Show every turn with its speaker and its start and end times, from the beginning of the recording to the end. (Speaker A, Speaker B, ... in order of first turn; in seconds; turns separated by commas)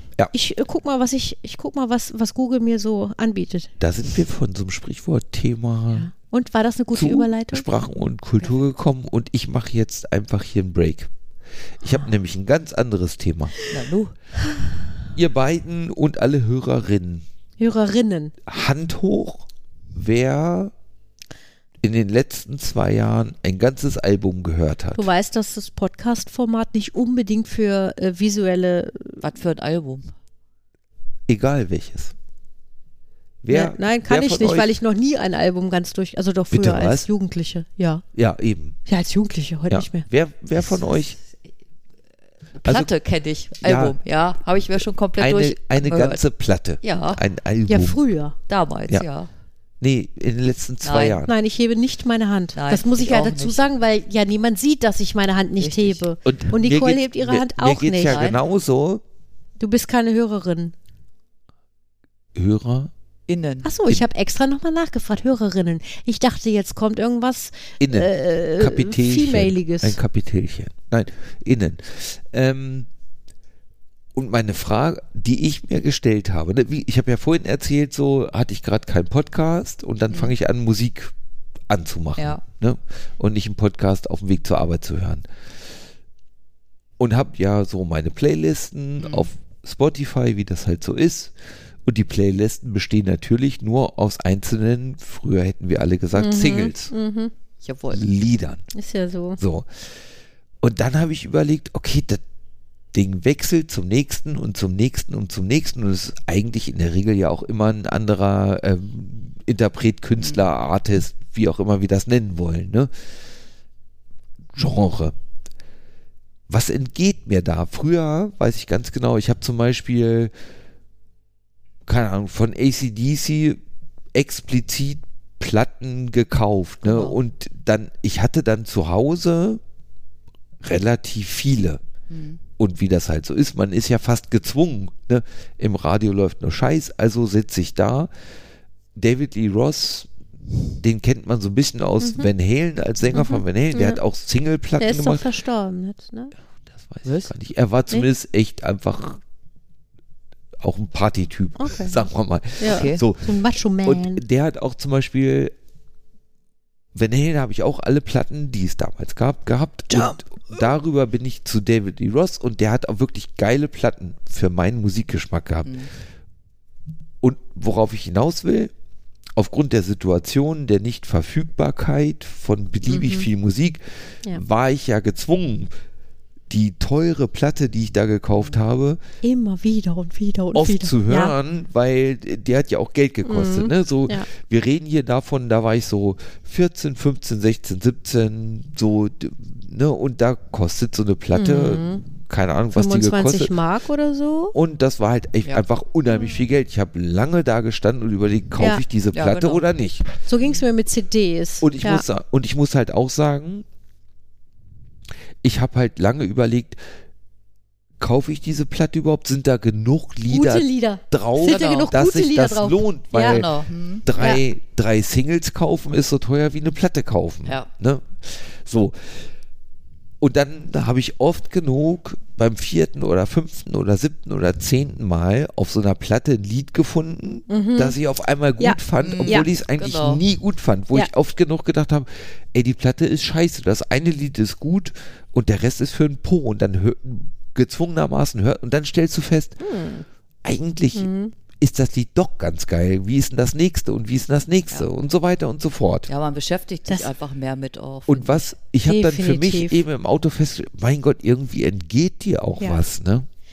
Speaker A: 0.3-3.7, Speaker B: 3.8-6.1, Speaker A: 6.0-7.7, Speaker B: 6.9-11.1, Speaker B: 11.8-13.5, Speaker C: 13.7-14.1, Speaker B: 15.2-17.2, Speaker A: 17.6-18.3, Speaker B: 18.5-20.7, Speaker B: 21.8-25.1, Speaker A: 25.0-29.2, Speaker C: 29.2-30.1, Speaker B: 31.3-32.1, Speaker B: 33.4-34.7, Speaker A: 33.5-38.0, Speaker B: 36.5-37.1, Speaker B: 38.1-38.8, Speaker A: 38.9-40.1, Speaker B: 39.7-41.2, Speaker C: 42.6-46.2, Speaker B: 42.6-42.9, Speaker B: 43.6-44.0, Speaker B: 45.2-48.0, Speaker C: 46.8-47.2, Speaker A: 47.7-48.4, Speaker C: 48.5-49.3, Speaker B: 49.8-51.3, Speaker C: 50.8-51.2, Speaker A: 51.3-58.2, Speaker C: 52.5-53.6, Speaker C: 55.6-56.0, Speaker B: 56.2-59.0, Speaker C: 58.1-58.4, Speaker A: 59.6-60.7, Speaker B: 62.4-62.9, Speaker C: 63.3-63.7, Speaker A: 63.6-70.0, Speaker B: 67.8-72.9, Speaker B: 74.2-81.1, Speaker B: 81.7-85.2, Speaker B: 87.0-91.3, Speaker C: 89.0-89.3, Speaker B: 91.8-96.9, Speaker A: 96.2-97.3, Speaker C: 97.6-98.1, Speaker B: 97.9-98.6, Speaker A: 98.7-99.4, Speaker B: 99.4-99.7, Speaker B: 100.6-102.2, Speaker B: 102.9-112.9, Speaker B: 114.5-115.1, Speaker B: 116.5-120.3, Speaker B: 121.9-123.6, Speaker B: 124.1-129.6, Speaker C: 126.8-127.2, Speaker B: 130.6-131.8, Speaker C: 132.1-132.4, Speaker B: 132.6-138.1, Speaker B: 139.0-140.1, Speaker B: 140.8-145.2, Speaker A: 142.0-142.3, Speaker A: 143.1-144.0, Speaker A: 144.8-146.3, Speaker B: 146.7-149.2, Speaker C: 147.1-147.3, Speaker B: 150.6-153.3, Speaker A: 151.6-152.0, Speaker A: 152.6-154.2, Speaker C: 152.6-153.0, Speaker B: 153.8-155.5, Speaker B: 156.9-165.8, Speaker C: 165.7-165.9, Speaker B: 167.2-168.7, Speaker B: 169.4-173.8, Speaker A: 172.9-173.3, Speaker B: 174.3-175.7, Speaker B: 176.5-179.0, Speaker A: 179.2-181.3, Speaker B: 180.6-193.5, Speaker A: 183.2-184.3, Speaker A: 191.3-192.0, Speaker A: 192.7-194.6, Speaker B: 194.5-200.1, Speaker A: 198.6-198.8, Speaker C: 199.1-199.7, Speaker A: 200.3-202.1, Speaker B: 201.6-203.7, Speaker B: 205.4-206.8, Speaker B: 208.0-213.5, Speaker A: 210.3-213.4, Speaker C: 211.4-211.9, Speaker C: 213.1-214.1, Speaker B: 214.1-219.2, Speaker B: 220.2-239.6, Speaker A: 227.5-228.0, Speaker A: 228.6-229.5, Speaker C: 229.0-230.2, Speaker A: 239.6-240.1, Speaker B: 240.4-246.1, Speaker A: 240.9-241.3, Speaker C: 246.1-248.5, Speaker B: 248.1-253.3, Speaker A: 248.8-249.8